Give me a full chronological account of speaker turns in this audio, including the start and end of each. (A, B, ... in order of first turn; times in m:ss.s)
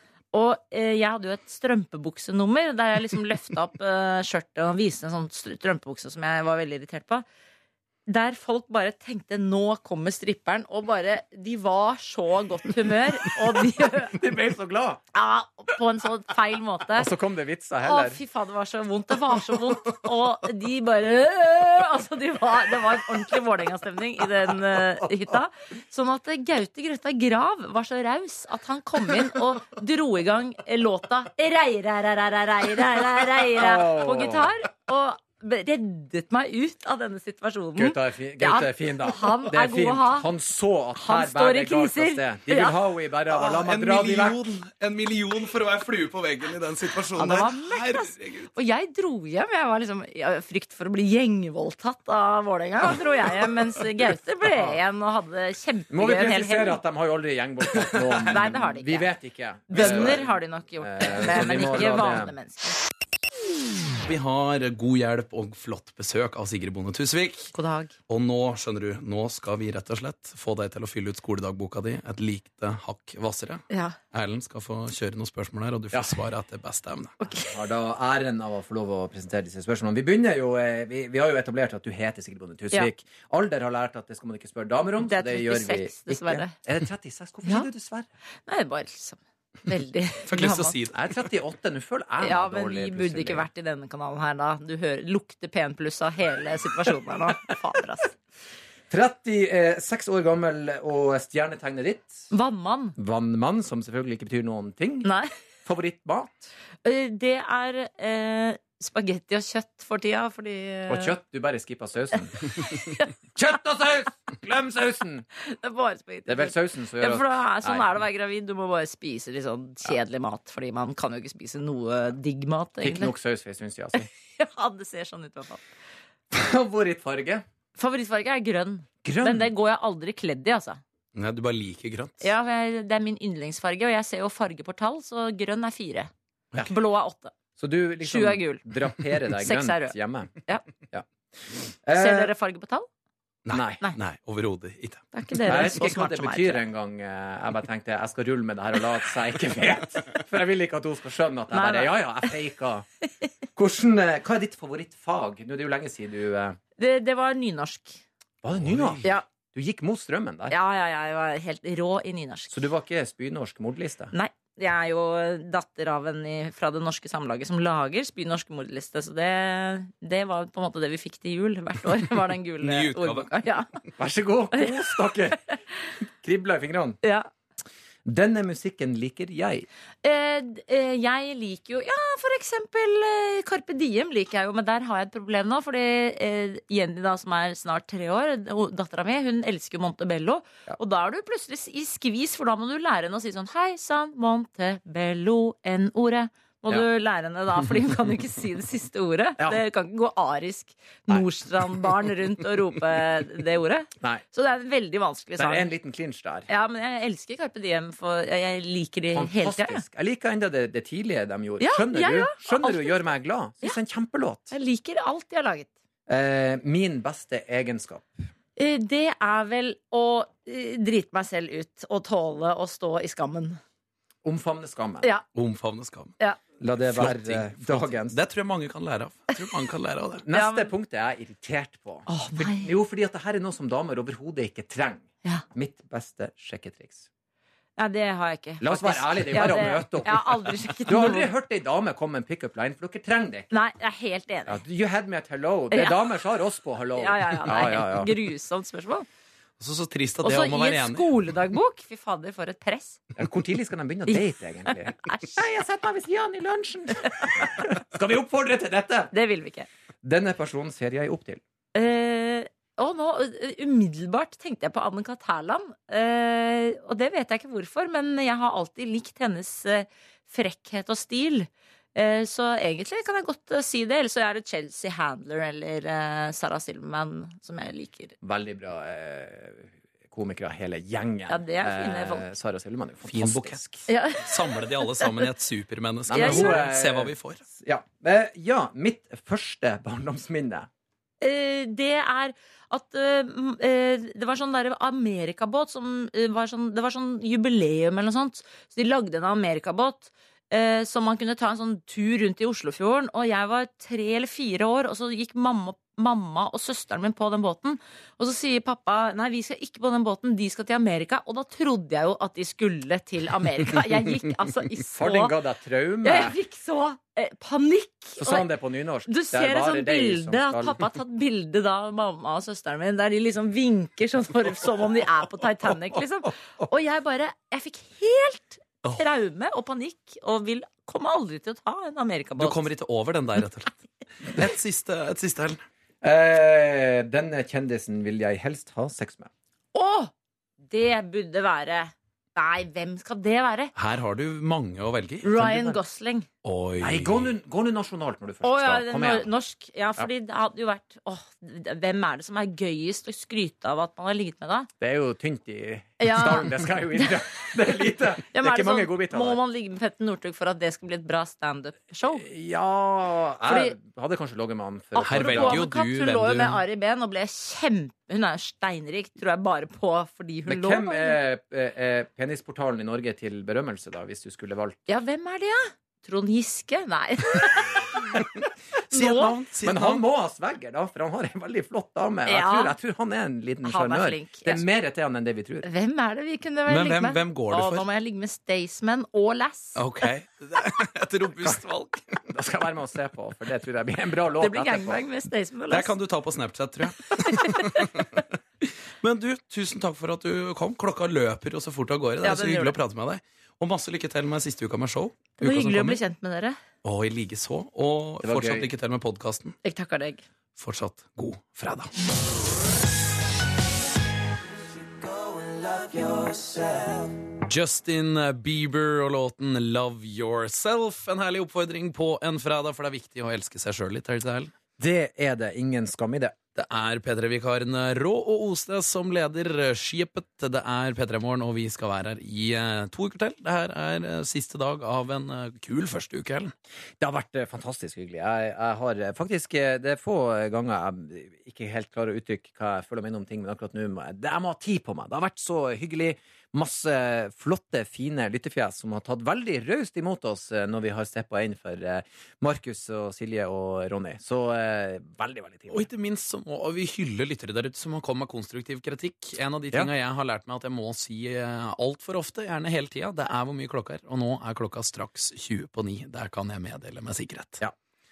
0:00.3-0:07.2 A
0:08.1-0:14.2 A
0:14.0-0:15.0 B
0:15.1-0:17.1 A
0:16.9-0:18.2 B
0:17.8-0:40.3 A
0:33.5-0:34.5 B
0:37.8-0:44.4 B
0:41.0-0:42.8 A
0:43.3-0:48.5 C
0:47.2-0:56.8 A
0:55.9-1:02.3 B
0:58.3-0:59.1 A
0:59.7-1:02.8 A
0:59.8-1:00.1 C
1:01.5-1:02.0 C
1:04.0-1:07.5 C
1:07.6-1:08.0 A
1:08.1-1:17.2 C
1:13.7-1:14.0 A
1:15.9-1:16.2 B
1:17.2-1:17.6 A
1:17.3-1:28.1 B
1:25.0-1:26.6 A
1:28.5-1:30.8 A
1:30.3-1:31.0 C
1:30.9-1:33.5 B
1:32.2-1:38.2 A
1:38.9-1:42.3 B
1:42.3-1:43.0 A
1:43.0-1:45.1 B
1:45.0-1:45.3 A
1:45.6-1:46.5 B
1:46.8-1:51.2 A
1:50.9-1:52.5 B
1:52.5-1:53.1 A
1:53.4-1:55.3 B
1:55.4-2:03.1 A
1:56.3-1:58.0 B
2:02.8-2:04.1 B
2:04.0-2:05.7 A
2:06.3-2:07.4 B
2:07.8-2:10.8 A
2:09.0-2:09.5 B
2:11.2-2:12.3 C
2:12.2-2:17.4 A
2:17.6-2:20.4 B
2:18.0-2:20.6 A
2:21.8-2:22.3 B
2:21.9-2:22.9 A
2:23.5-2:25.1 C
2:23.5-2:23.8 B
2:25.1-2:26.6 A
2:25.4-2:32.9 B
2:31.5-2:32.0 A
2:33.6-2:36.6 B
2:36.8-2:38.0 A
2:38.4-2:40.6 B
2:38.5-2:39.2 C
2:40.5-2:42.6 A
2:42.5-2:44.1 B
2:44.1-2:53.7 A
2:52.6-2:53.3 C
2:54.0-2:55.4 B
2:54.6-2:54.9 A
2:56.0-2:57.0 B
2:57.0-2:57.3 A
2:58.0-2:59.7 B
3:00.0-3:25.7 A
3:25.4-3:26.5 B
3:26.5-3:29.8 A
3:29.1-3:34.5 B
3:31.6-3:33.0 A
3:34.5-3:35.7 A
3:36.1-3:38.3 B
3:38.6-3:43.6 A
3:44.2-3:45.1 B
3:45.3-3:46.2 C
3:46.6-3:48.2 B
3:46.8-3:50.2 C
3:50.3-3:57.1 B
3:50.3-3:50.7 A
3:52.1-3:52.7 A
3:57.8-4:01.3 A
3:58.6-4:03.5 B
4:03.5-4:04.6 A
4:04.5-4:08.1 B
4:07.0-4:09.1 A
4:09.6-4:11.1 C
4:10.2-4:13.1 A
4:13.2-4:19.1 B
4:14.1-4:15.4 A
4:17.0-4:17.7 A
4:19.1-4:19.7 A
4:20.0-4:21.4 B
4:21.8-4:38.2 A
4:38.2-4:43.8 B
4:41.3-4:42.3 A
4:43.0-4:43.6 C
4:43.9-4:45.3 A
4:44.1-4:47.4 C
4:46.1-4:46.7 A
4:46.1-4:50.7 B
4:51.2-5:15.4 A
5:15.0-5:16.4 B
5:16.0-5:18.5 A
5:18.2-5:20.8 B
5:19.1-5:32.6 A
5:32.4-5:35.6 C
5:36.0-5:39.3 B
5:39.7-5:40.1 A
5:40.7-5:43.7 A
5:43.8-5:45.3 C
5:45.2-5:46.3 A
5:45.3-5:45.8 B
5:46.4-5:47.3 C
5:46.8-5:49.3 B
5:48.4-5:54.7 A
5:54.8-5:59.4 B
5:56.0-5:57.2 A
5:58.3-6:02.3 A
6:02.1-6:05.6 B
6:03.5-6:03.8 A
6:04.9-6:11.2 A
6:05.0-6:06.6 C
6:10.5-6:14.9 B
6:14.9-6:18.3 A
6:18.9-6:20.0 C
6:18.9-6:19.3 A
6:19.6-6:25.7 B
6:22.3-6:22.7 A
6:23.6-6:24.6 A
6:25.6-6:29.8 A
6:26.7-6:27.9 C
6:29.8-6:32.2 C
6:32.3-6:35.0 B
6:34.4-6:35.9 A
6:35.7-6:46.0 C
6:37.2-6:37.9 A
6:42.2-6:42.8 A
6:45.4-6:46.6 A
6:46.8-6:49.6 C
6:48.2-6:48.7 B
6:49.6-6:50.2 A
6:50.6-6:51.9 C
6:55.6-6:56.8 B
6:57.4-7:04.5 C
7:04.8-7:06.4 B
7:06.6-7:16.5 C
7:17.0-7:35.9 B
7:35.7-7:47.6 C